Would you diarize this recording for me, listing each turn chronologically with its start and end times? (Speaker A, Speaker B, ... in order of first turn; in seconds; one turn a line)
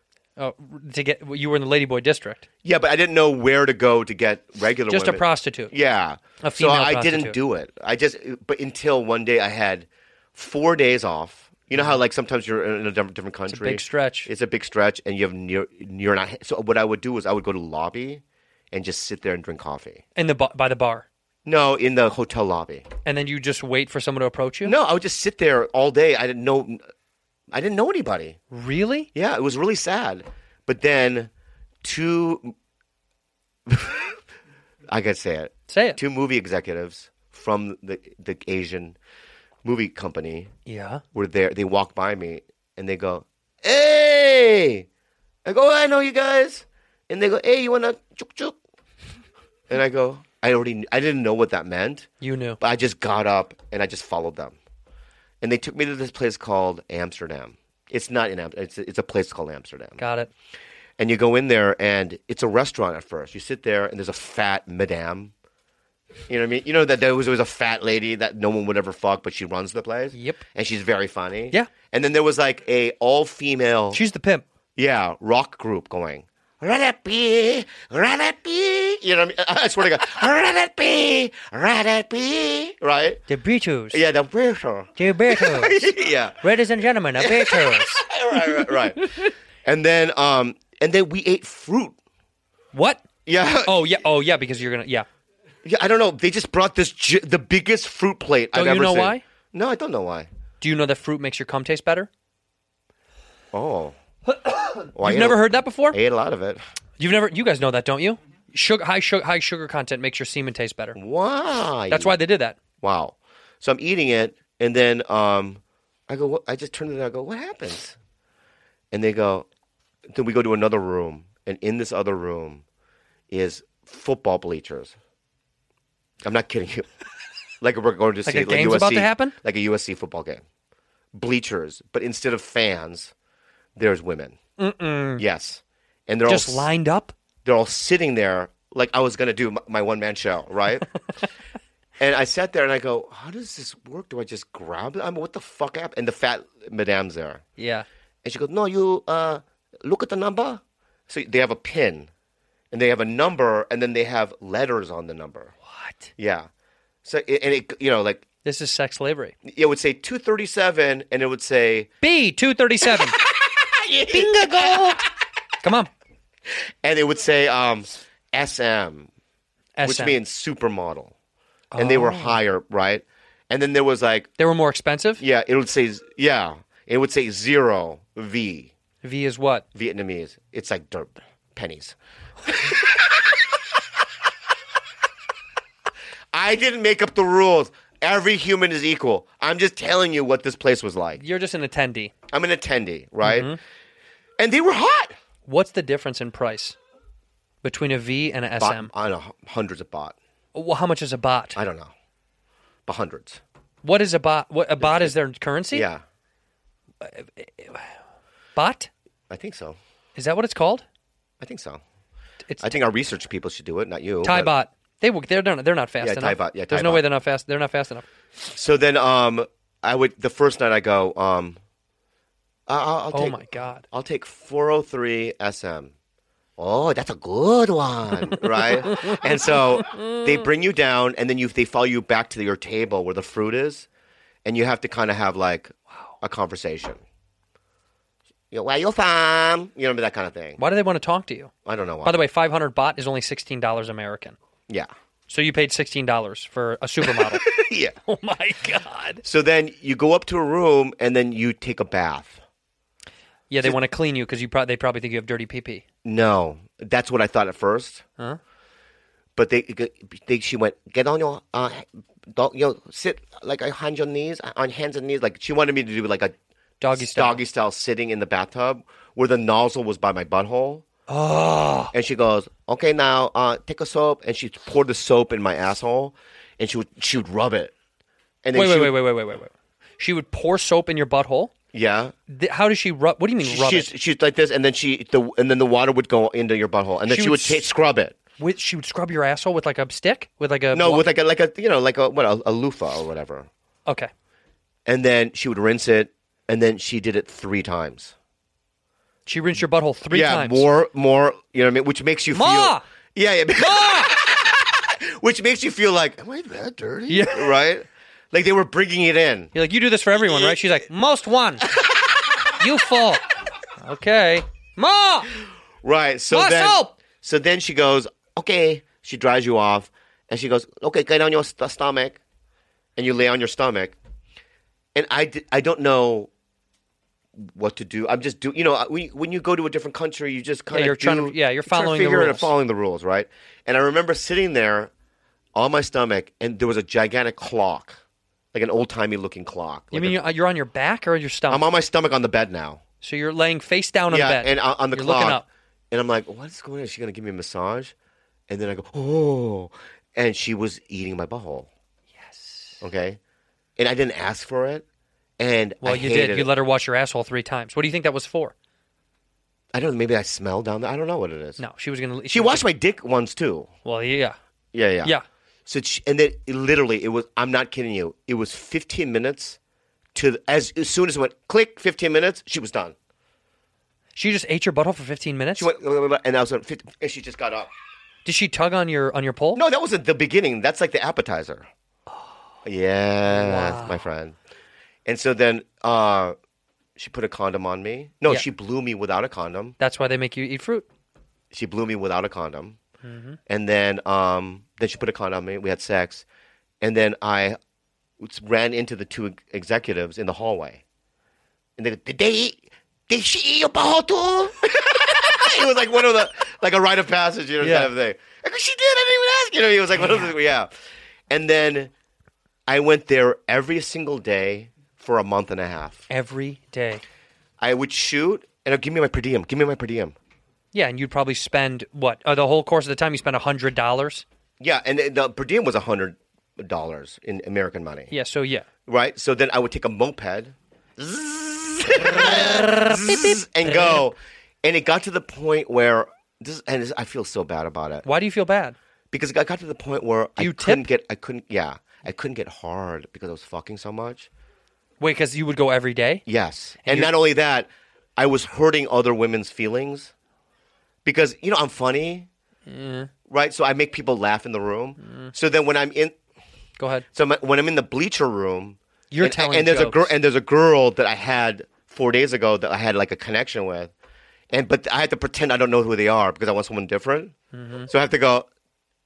Speaker A: 0.4-2.5
Speaker B: 2.6-20.0
Speaker A: 4.9-5.7
Speaker A: 6.4-7.3
Speaker A: 13.5-14.3
Speaker A: 20.1-21.1
Speaker B: 21.4-22.9
Speaker A: 23.1-24.7
Speaker B: 24.6-26.8
Speaker B: 27.5-28.4
Speaker A: 28.5-29.1
Speaker B: 29.1-31.3
Speaker B: 31.8-32.5
Speaker B: 33.7-34.2
Speaker B: 34.9-39.0
Speaker A: 35.7-36.0
Speaker B: 39.6-40.5
Speaker A: 40.7-41.0
Speaker B: 41.1-44.9
Speaker B: 45.4-48.6
Speaker B: 49.7-52.1
Speaker A: 52.2-52.6
Speaker B: 52.6-54.5
Speaker B: 55.4-60.0
Speaker A: 60.0-60.3
Speaker B: 61.0-65.3
Speaker B: 66.3-74.0
Speaker A: 70.1-70.4
Speaker A: 73.9-74.4
Speaker B: 74.8-83.2
Speaker A: 83.3-84.0
Speaker B: 83.9-86.4
Speaker A: 85.0-89.3
Speaker B: 87.2-92.0
Speaker A: 92.7-93.0
Speaker B: 93.2-93.9
Speaker A: 93.6-95.0
Speaker B: 95.6-100.3
Speaker A: 98.5-99.2
Speaker A: 100.6-102.1
Speaker B: 103.5-104.0
Speaker A: 104.3-106.0
Speaker B: 104.9-106.6
Speaker A: 107.0-111.0
Speaker B: 111.0-112.1
Speaker A: 111.9-112.6
Speaker B: 112.8-118.0
Speaker B: 118.9-119.5
Speaker B: 120.1-122.6
Speaker B: 123.3-124.9
Speaker B: 126.2-126.9
Speaker B: 127.6-130.4
Speaker A: 128.2-129.3
Speaker B: 131.1-133.1
Speaker B: 133.8-134.4
Speaker A: 134.6-135.2
Speaker B: 135.2-136.7
Speaker A: 136.3-137.1
Speaker B: 137.4-140.9
Speaker B: 142.0-147.4
Speaker A: 147.6-147.8
Speaker B: 148.2-152.1
Speaker B: 152.7-155.5
Speaker A: 155.7-156.1
Speaker B: 156.2-156.5
Speaker B: 157.0-158.2
Speaker A: 158.4-159.3
Speaker B: 159.4-161.9
Speaker A: 162.0-163.2
Speaker B: 162.8-165.0
Speaker A: 164.1-165.0
Speaker A: 165.6-165.9
Speaker B: 166.8-169.1
Speaker A: 169.8-170.2
Speaker B: 169.8-171.1
Speaker A: 171.7-172.4
Speaker B: 171.8-174.3
Speaker A: 174.4-175.2
Speaker B: 175.2-178.7
Speaker A: 179.0-179.7
Speaker B: 179.7-183.8
Speaker B: 186.3-191.2
Speaker A: 191.2-192.1
Speaker B: 192.3-193.5
Speaker A: 193.2-193.6
Speaker B: 194.4-195.2
Speaker A: 195.5-196.8
Speaker A: 197.6-198.9
Speaker B: 198.6-200.2
Speaker A: 200.5-201.6
Speaker B: 201.5-201.9
Speaker B: 202.8-203.4
Speaker A: 203.8-205.9
Speaker B: 204.8-205.1
Speaker B: 205.7-206.0
Speaker A: 207.0-207.9
Speaker A: 208.6-208.9
Speaker B: 209.3-209.8
Speaker A: 210.2-210.8
Speaker B: 211.4-211.8
Speaker A: 212.5-212.7
Speaker B: 212.6-214.5
Speaker A: 214.2-218.1
Speaker B: 216.0-217.0
Speaker B: 218.4-221.6
Speaker B: 222.7-225.9
Speaker A: 223.1-223.8
Speaker B: 226.6-233.9
Speaker A: 228.8-229.2
Speaker A: 229.9-230.2
Speaker B: 234.4-237.0
Speaker B: 238.5-240.6
Speaker A: 240.6-241.5
Speaker B: 241.7-242.2
Speaker A: 242.0-244.4
Speaker A: 245.3-247.5
Speaker B: 247.1-247.9
Speaker A: 248.1-249.2
Speaker B: 249.2-252.4
Speaker A: 253.5-255.8
Speaker B: 256.0-258.0
Speaker B: 259.4-266.3
Speaker A: 266.8-267.4
Speaker B: 266.9-270.8
Speaker A: 271.1-271.9
Speaker B: 271.9-277.7
Speaker B: 278.4-278.9
Speaker A: 278.5-281.5
Speaker B: 281.7-282.1
Speaker A: 282.3-283.9
Speaker B: 283.4-288.1
Speaker A: 287.1-287.6
Speaker A: 288.4-291.0
Speaker B: 290.7-293.5
Speaker B: 294.9-298.1
Speaker A: 299.2-300.7
Speaker B: 300.1-309.5
Speaker A: 302.3-302.8
Speaker A: 303.5-304.1
Speaker A: 307.1-307.5
Speaker A: 309.5-311.7
Speaker B: 310.1-310.7
Speaker B: 311.6-312.5
Speaker A: 312.5-313.3
Speaker A: 313.8-315.3
Speaker B: 315.8-322.2
Speaker A: 316.3-316.9
Speaker B: 322.9-324.0
Speaker B: 324.9-326.3
Speaker B: 327.4-334.9
Speaker A: 330.7-332.5
Speaker B: 335.5-338.0
Speaker B: 338.5-340.2
Speaker A: 339.9-341.6
Speaker B: 341.5-342.8
Speaker A: 343.0-345.4
Speaker B: 344.1-347.9
Speaker B: 348.5-351.7
Speaker A: 352.1-352.8
Speaker B: 352.8-353.2
Speaker B: 353.8-354.8
Speaker B: 355.4-356.5
Speaker A: 355.8-358.5
Speaker B: 359.7-361.6
Speaker A: 361.6-362.6
Speaker B: 362.3-363.7
Speaker A: 363.8-364.4
Speaker B: 364.7-365.1
Speaker B: 365.7-369.6
Speaker B: 370.1-372.9
Speaker A: 374.1-375.7
Speaker B: 375.6-377.7
Speaker A: 378.2-379.6
Speaker B: 379.5-381.7
Speaker B: 382.6-384.4
Speaker A: 383.3-384.0
Speaker B: 385.0-386.4
Speaker B: 386.9-389.7
Speaker A: 389.8-390.9
Speaker B: 391.5-392.8
Speaker A: 393.0-393.4
Speaker B: 393.5-396.2
Speaker B: 396.8-397.6
Speaker B: 398.2-400.8
Speaker B: 401.8-410.7
Speaker A: 407.6-407.9
Speaker A: 410.0-410.3
Speaker B: 411.3-411.9
Speaker B: 412.7-416.1
Speaker A: 416.1-417.0
Speaker B: 417.6-420.1
Speaker A: 420.7-424.2
Speaker B: 424.6-428.1
Speaker A: 428.1-428.6
Speaker B: 428.9-438.0
Speaker A: 432.0-434.1
Speaker A: 438.0-438.8
Speaker B: 439.1-444.3
Speaker A: 440.4-440.9
Speaker A: 445.0-446.2
Speaker B: 446.3-450.1
Speaker A: 446.8-447.1
Speaker B: 451.0-452.3
Speaker A: 452.7-453.1
Speaker B: 453.3-456.1
Speaker A: 455.0-455.3
Speaker A: 456.8-457.1
Speaker B: 457.1-463.9
Speaker A: 459.1-460.1
Speaker B: 464.5-467.3
Speaker A: 467.5-467.9
Speaker B: 467.9-468.5